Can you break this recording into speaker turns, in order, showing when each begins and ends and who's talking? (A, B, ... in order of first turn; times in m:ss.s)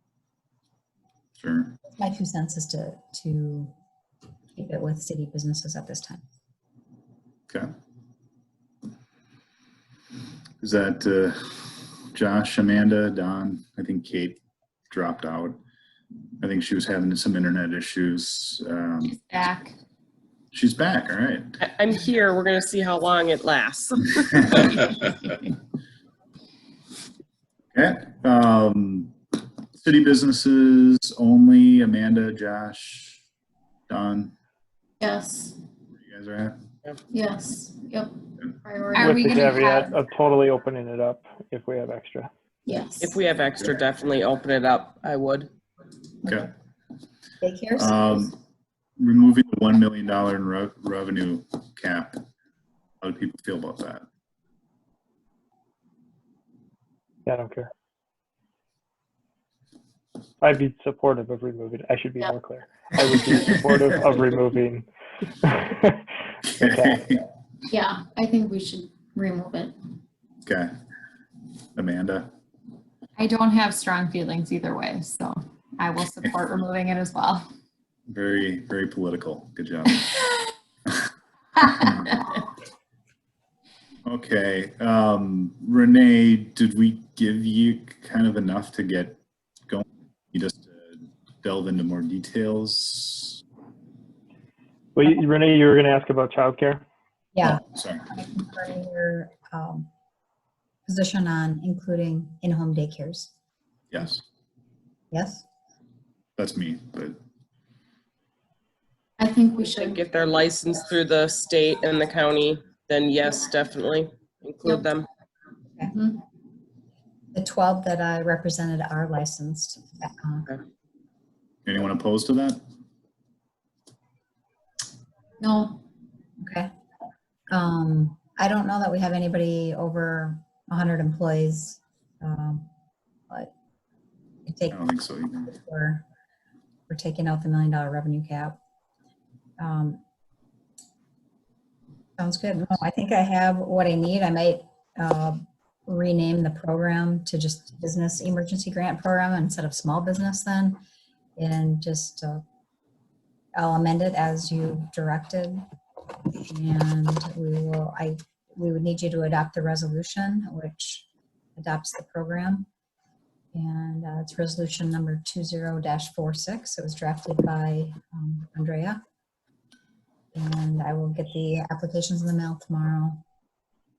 0:01.4-0:01.7 A
0:01.9-0:03.7 B
0:04.5-0:06.2 B
0:10.6-0:15.6 A
0:16.4-0:19.2 A
0:19.0-0:19.8 C
0:20.5-0:21.6 A
0:21.6-0:25.1 D
0:27.7-0:29.1 A
0:29.8-0:33.2 A
0:33.9-0:34.3 A
0:35.0-0:35.6 E
0:36.0-0:36.6 A
0:37.1-0:39.2 E
0:39.0-0:40.0 C
0:39.0-0:42.3 F
0:42.7-0:43.2 E
0:43.0-0:45.5 D
0:46.3-0:46.5 A
0:47.4-0:48.3 B
0:47.8-0:48.4 A
0:49.0-0:52.2 A
0:53.0-0:54.0 A
0:57.3-0:57.7 F
1:00.4-1:04.9 F
1:05.4-1:07.1 F
1:06.5-1:07.2 A
1:07.7-1:09.7 E
1:10.4-1:10.7 A
1:11.8-1:12.3 A
1:13.2-1:17.5 C
1:18.1-1:20.1 A
1:24.0-1:33.4 A
1:34.9-1:36.8 F
1:37.3-1:39.9 B
1:37.4-1:38.0 A
1:40.8-1:43.3 B
1:43.9-1:44.2 A
1:45.1-1:45.4 B
1:46.4-1:47.2 A
1:49.2-1:50.0 E
1:49.7-1:55.0 D
1:55.9-1:56.2 E
1:57.3-2:00.6 B
2:01.6-2:02.6 A
2:05.4-2:05.8 E
2:06.4-2:06.7 B
2:07.5-2:12.7 B
2:14.5-2:14.8 B
2:14.7-2:15.5 A
2:15.5-2:16.0 B
2:16.9-2:18.6 B
2:19.6-2:20.0 B
2:22.2-2:30.8 B
2:31.4-2:32.4 B
2:33.6-2:35.6 B
2:36.4-2:42.7 B
2:43.5-2:49.0 B
2:50.3-2:53.2 B